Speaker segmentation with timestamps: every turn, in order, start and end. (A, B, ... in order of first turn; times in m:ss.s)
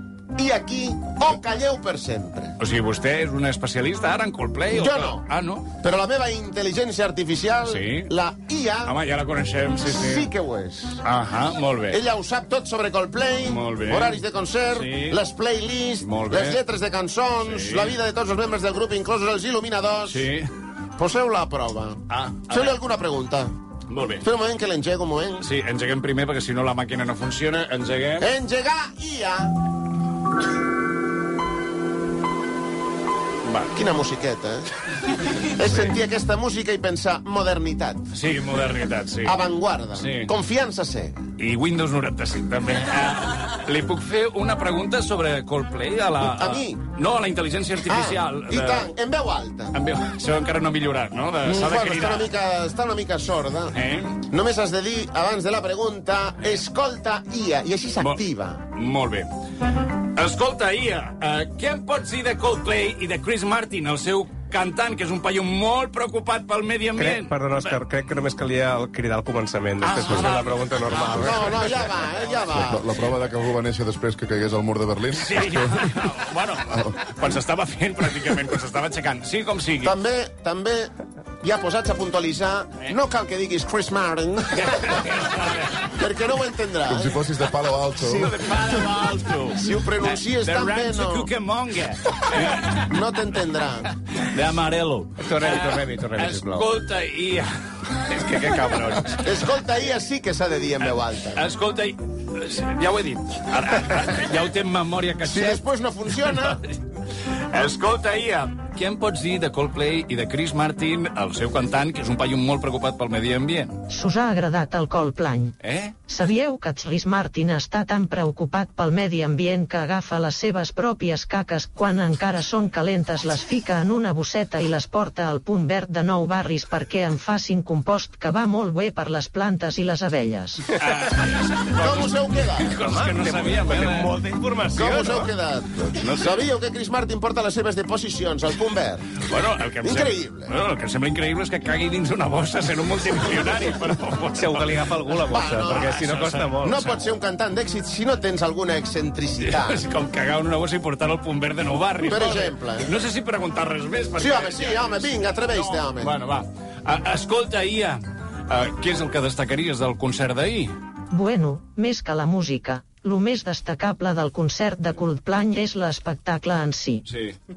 0:00.4-0:02.6 A
0:02.6-0:05.7 B
0:04.7-0:05.2 A
0:05.8-0:09.0 A
0:07.6-0:08.1 B
0:08.8-0:10.3 B
0:09.8-0:11.0 A
0:11.0-0:12.0 B
0:11.9-0:20.2 A
0:13.4-0:15.2 B
0:16.0-0:16.6 B
0:17.4-0:18.0 B
0:20.1-0:20.5 B
0:21.0-0:23.5 A
0:22.1-0:22.8 B
0:23.9-0:24.2 B
0:24.2-0:25.4 A
0:25.4-0:28.3 B
0:28.2-0:29.5 A
0:33.4-0:33.8 B
0:33.7-0:34.7 A
0:35.4-0:38.0 A
0:38.1-0:39.4 B
0:39.2-0:41.2 A
0:39.9-0:40.3 B
0:41.4-0:48.9 B
0:46.2-0:46.8 A
0:47.9-0:49.8 A
0:49.7-0:52.3 B
0:51.4-0:58.6 A
0:53.7-0:54.2 B
0:58.0-0:59.3 B
1:00.2-1:07.8 B
1:07.0-1:11.9 C
1:09.8-1:12.5 B
1:11.2-1:13.0 A
1:12.5-1:15.9 D
1:15.1-1:20.0 B
1:19.8-1:25.0 A
1:24.6-1:25.8 B
1:25.8-1:27.1 A
1:26.9-1:28.3 D
1:28.0-1:28.3 A
1:28.2-1:32.8 B
1:29.6-1:31.3 A
1:32.6-1:33.9 A
1:34.2-1:39.3 B
1:35.2-1:36.7 C
1:39.2-1:41.4 A
1:41.4-1:45.6 B
1:45.2-1:46.6 A
1:47.5-1:53.8 B
1:53.9-1:55.5 E
1:55.6-1:55.9 B
1:56.1-2:10.7 E
2:10.7-2:14.2 B
2:11.8-2:12.8 A
2:12.8-2:15.3 C
2:14.7-2:19.1 A
2:16.0-2:16.4 B
2:19.2-2:25.0 B
2:19.8-2:20.5 A
2:24.3-2:26.9 C
2:25.3-2:26.0 A
2:25.7-2:27.0 B
2:26.6-2:29.8 A
2:29.4-2:40.7 B
2:32.0-2:32.9 A
2:34.2-2:36.1 A
2:41.1-2:47.0 E
2:47.1-2:47.3 B